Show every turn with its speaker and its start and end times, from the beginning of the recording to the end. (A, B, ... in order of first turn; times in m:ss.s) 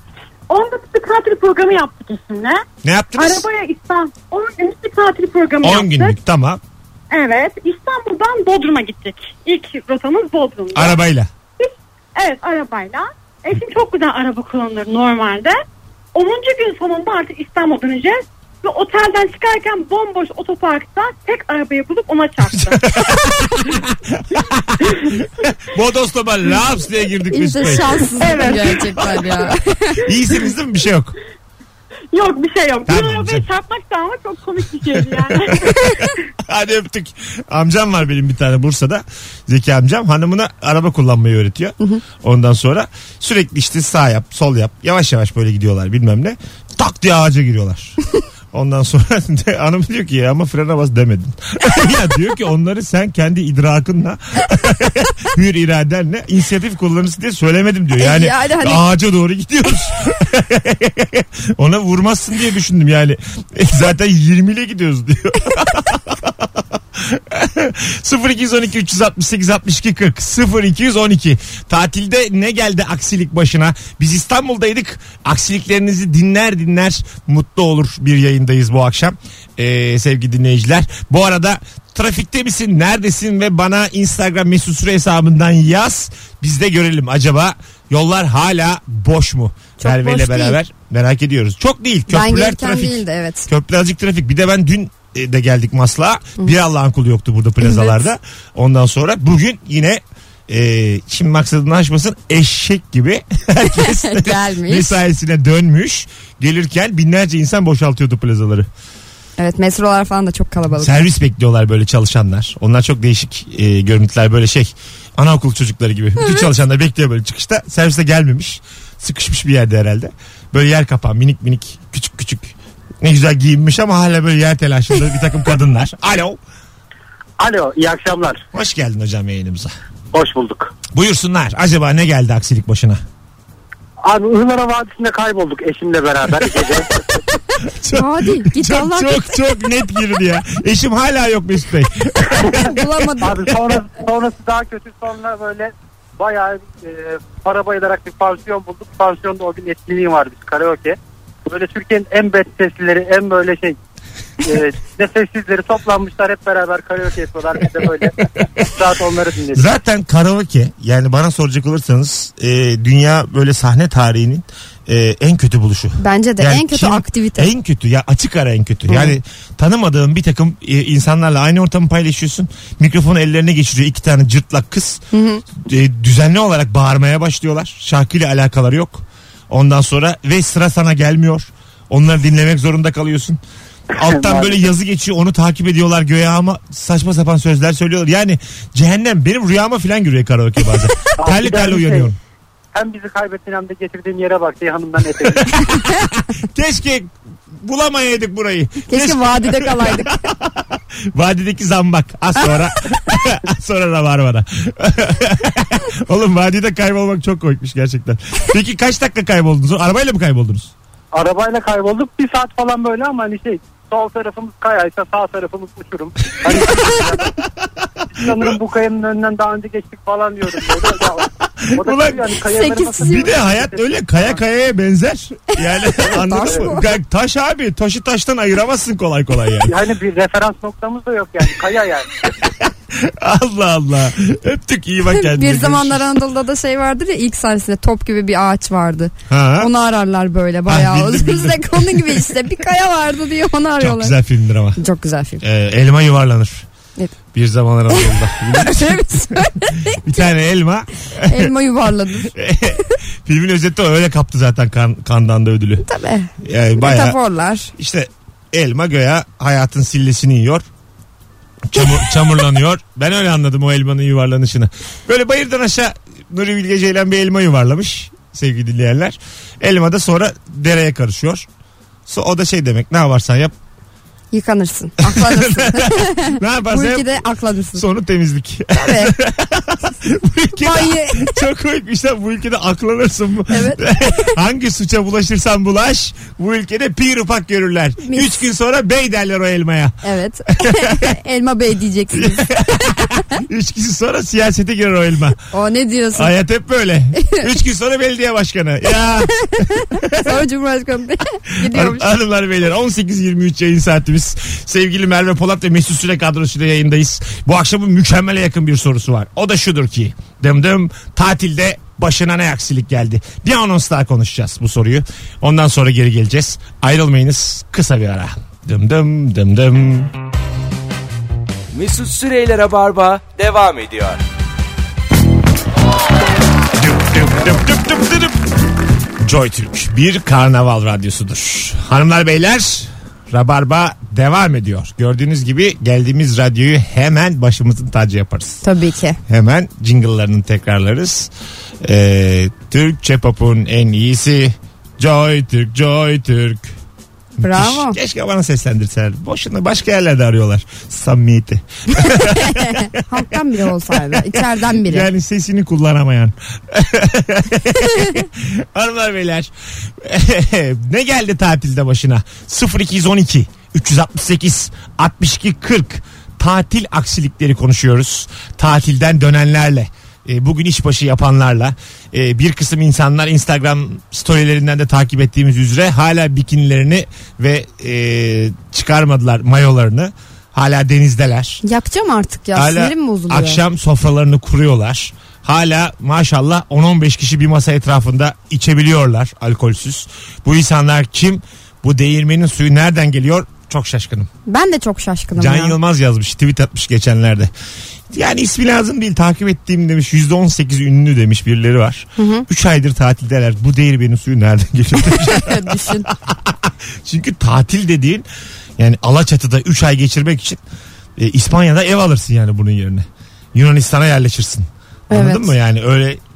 0:00.5-0:02.6 A
0:02.8-0:03.4 B
0:03.2-0:06.2 A
0:05.6-0:06.6 B
0:07.1-0:11.0 A
0:10.7-0:11.3 B
0:11.6-0:15.6 A
0:16.1-0:23.5 A
0:22.5-0:28.3 B
0:27.3-0:30.0 C
0:28.2-0:29.3 A
0:30.0-0:31.1 B
0:32.1-0:36.1 A
0:32.9-0:33.4 B
0:35.0-0:48.0 B
0:48.5-1:48.7 B
0:58.0-0:58.8 C
1:29.8-1:30.6 C
1:32.1-1:33.5 C
1:37.6-1:38.0 C
1:43.7-1:44.9 C
1:49.4-1:51.0 C
1:50.8-2:06.4 B
2:07.4-2:08.4 D
2:08.5-2:09.7 B
2:10.1-2:10.7 D
2:10.9-2:13.0 B
2:14.0-2:17.2 D
2:17.6-2:22.8 B
2:17.9-2:19.3 C
2:22.5-2:23.4 C
2:23.2-2:33.8 D
2:34.4-2:39.6 D
2:39.5-2:55.0 B
2:46.0-2:47.5 C
2:48.9-2:49.1 C
2:55.1-2:55.4 C
2:55.6-3:03.4 B
3:03.9-3:12.2 B
3:04.0-3:04.5 D
3:11.2-3:12.1 D
3:12.7-3:15.6 D
3:15.4-3:30.7 B
3:18.9-3:20.2 C
3:31.1-3:37.4 D
3:38.1-3:44.4 D
3:38.2-3:38.5 B
3:41.7-3:42.3 B
3:42.4-3:43.3 C
3:43.0-3:49.8 B
3:46.0-3:46.9 C
3:49.6-3:52.1 D
3:52.6-3:56.0 B
3:55.1-4:04.1 C
3:59.3-3:59.7 B
4:00.7-4:02.3 B
4:03.8-4:04.8 B
4:04.8-4:05.4 C
4:05.4-4:06.6 B
4:07.3-4:11.5 B
4:07.9-4:10.0 C
4:11.2-4:12.3 C
4:12.3-4:15.8 B
4:15.8-4:17.7 C
4:16.4-4:17.2 B
4:17.8-4:20.6 B
4:21.7-4:31.5 B
4:32.1-4:33.5 B
4:34.3-4:37.8 C
4:35.0-4:37.1 B
4:37.7-4:50.0 B
4:38.7-4:39.1 C
4:40.6-4:41.4 C
4:43.5-4:44.3 C
4:48.0-4:48.4 C
4:50.0-4:53.1 C
4:50.5-4:51.0 B
4:52.1-4:55.4 B
4:55.5-4:56.3 C
4:56.1-5:00.4 B
4:57.2-4:57.5 C
4:59.5-5:02.1 C
5:01.6-5:20.1 B
5:21.7-5:24.2 E
5:26.8-5:28.5 B
5:29.2-5:38.6 B
5:38.6-5:39.2 C
5:39.3-5:41.3 B
5:41.8-5:46.8 B
5:47.4-5:52.9 B
5:47.4-5:48.0 C
5:52.0-5:55.1 C
5:53.9-6:21.6 B
6:21.6-6:23.6 C
6:22.5-6:34.3 B
6:34.5-6:35.8 C
6:35.4-6:37.5 B
6:38.1-6:48.2 B
6:42.2-6:42.4 C
6:45.0-6:46.1 C
6:48.8-6:50.6 B
6:51.2-6:56.2 B
6:55.1-6:55.5 C